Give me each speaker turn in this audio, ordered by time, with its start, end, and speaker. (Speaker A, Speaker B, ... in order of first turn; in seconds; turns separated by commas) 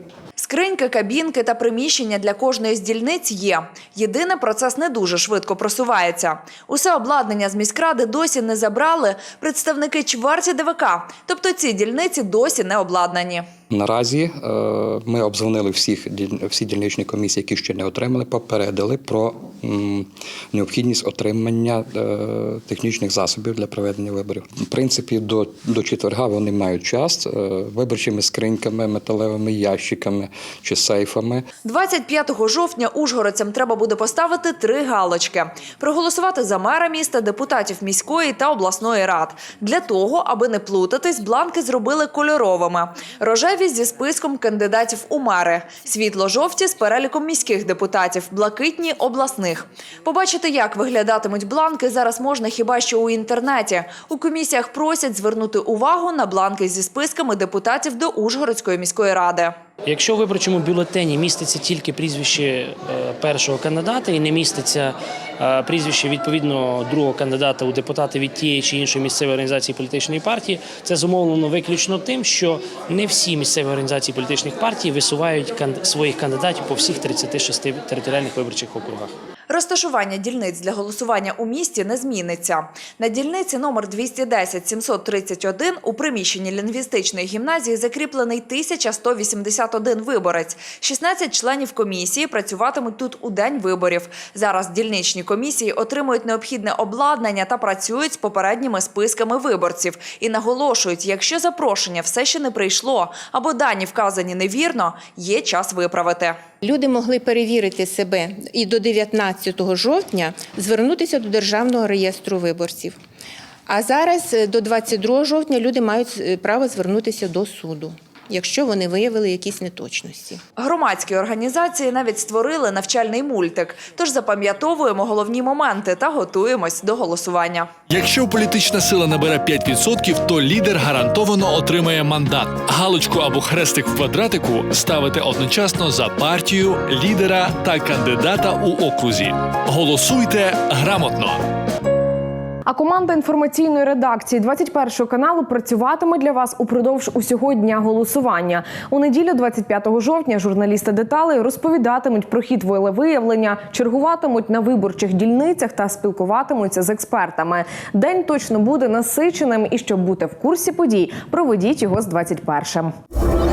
Speaker A: 0.4-13.4, Speaker B: 13.7-31.4, Speaker A: 31.6-59.5, Speaker C: 59.8-79.1, Speaker A: 79.5-106.4, Speaker D: 106.6-113.0, Speaker D: 113.7-120.4, Speaker A: 120.6-127.7, Speaker E: 127.9-141.4, Speaker F: 142.7-162.9